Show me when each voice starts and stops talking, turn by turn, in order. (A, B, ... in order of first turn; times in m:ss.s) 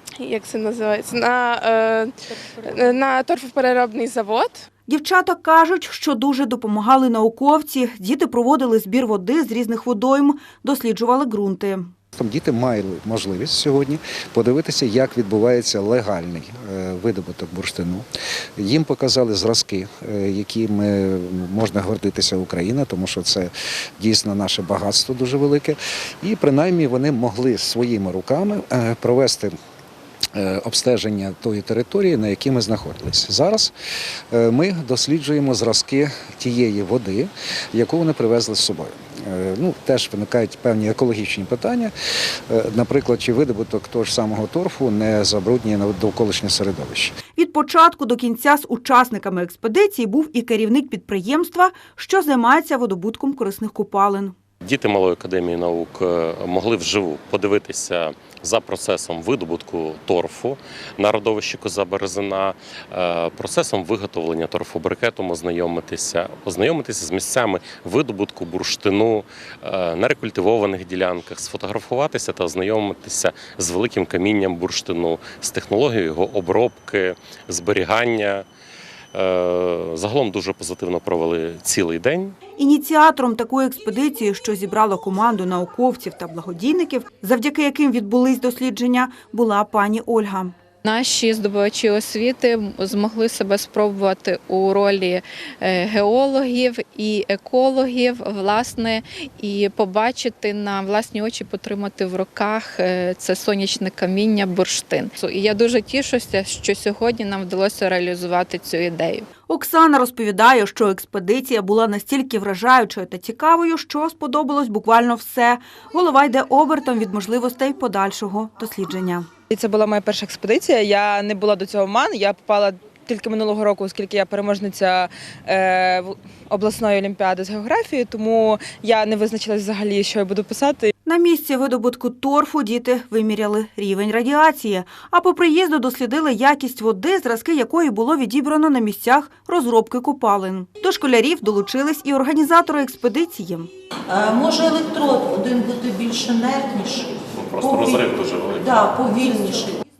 0:00.2-0:04.6 A
0:04.9-0:11.9 B
0:12.1-0:29.6 C
0:30.3-0:33.7 C
0:34.3-0:41.9 C
0:42.5-0:47.2 C
0:47.3-0:54.4 B
0:54.6-1:18.4 D
1:19.1-1:22.3 D
1:22.6-1:30.5 B
1:30.8-1:49.3 E
1:49.5-1:59.3 B
1:59.5-2:10.9 F
2:11.0-2:23.7 B
2:24.1-2:29.7 G
2:27.3-2:28.9 D